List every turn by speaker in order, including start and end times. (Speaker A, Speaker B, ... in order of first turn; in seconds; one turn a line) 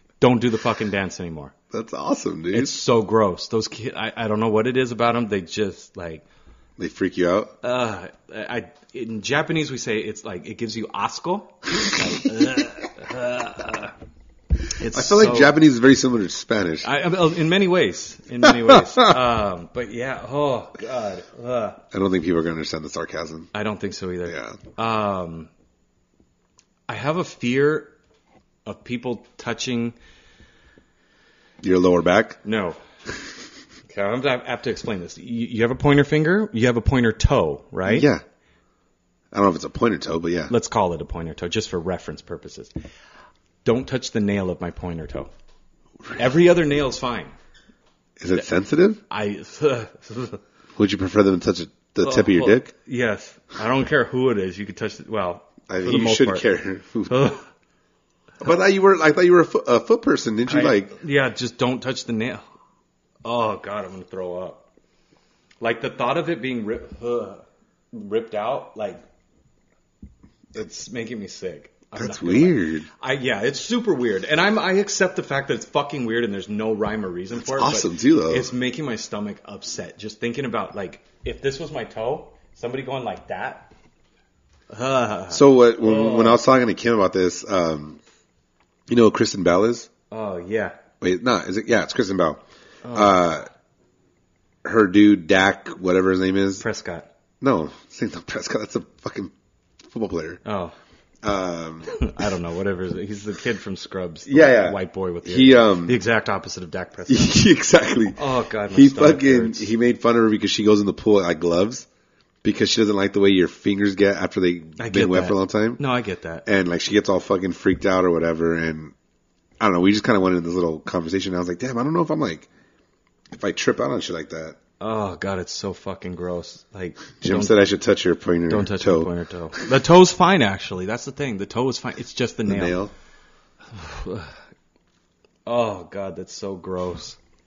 Speaker A: 0.2-1.5
Speaker B: 1.7-2.8
Speaker A: 2.5-6.2
Speaker B: 6.8-7.5
Speaker A: 7.6-13.9
Speaker A: 14.7-15.6
Speaker B: 14.9-16.9
Speaker A: 16.8-21.8
Speaker B: 18.4-19.1
Speaker B: 21.9-23.5
Speaker A: 23.5-25.5
Speaker B: 24.3-24.6
Speaker A: 26.9-27.9
Speaker A: 28.7-29.9
Speaker B: 31.6-32.4
Speaker A: 32.4-32.8
Speaker A: 33.9-38.1
Speaker B: 37.9-38.2
Speaker B: 39.3-40.5
Speaker A: 40.5-42.7
Speaker A: 43.6-45.3
Speaker A: 46.1-47.3
Speaker B: 48.2-49.0
Speaker A: 49.1-50.4
Speaker B: 50.8-52.7
Speaker A: 52.0-56.5
Speaker B: 55.7-57.3
Speaker A: 57.1-57.5
Speaker B: 58.4-60.9
Speaker A: 60.5-62.5
Speaker A: 63.2-64.7
Speaker A: 65.6-69.0
Speaker A: 70.5-83.7
Speaker B: 72.0-72.9
Speaker B: 77.3-78.5
Speaker A: 84.7-86.4
Speaker B: 85.3-88.0
Speaker B: 88.9-89.9
Speaker A: 90.1-90.8
Speaker B: 91.0-93.5
Speaker A: 92.8-93.2
Speaker B: 94.6-96.7
Speaker A: 96.6-97.1
Speaker B: 97.4-99.3
Speaker B: 99.9-100.4
Speaker A: 100.5-100.8
Speaker B: 101.2-102.1
Speaker A: 101.9-107.4
Speaker B: 104.3-106.0
Speaker B: 107.1-111.9
Speaker A: 108.2-109.7
Speaker B: 112.4-115.8
Speaker A: 114.8-116.5
Speaker B: 116.5-118.9
Speaker B: 119.6-122.5
Speaker B: 123.3-124.6
Speaker A: 124.8-127.6
Speaker B: 127.2-129.1
Speaker A: 128.5-132.8
Speaker B: 132.5-132.9
Speaker A: 133.7-134.4
Speaker A: 135.5-137.2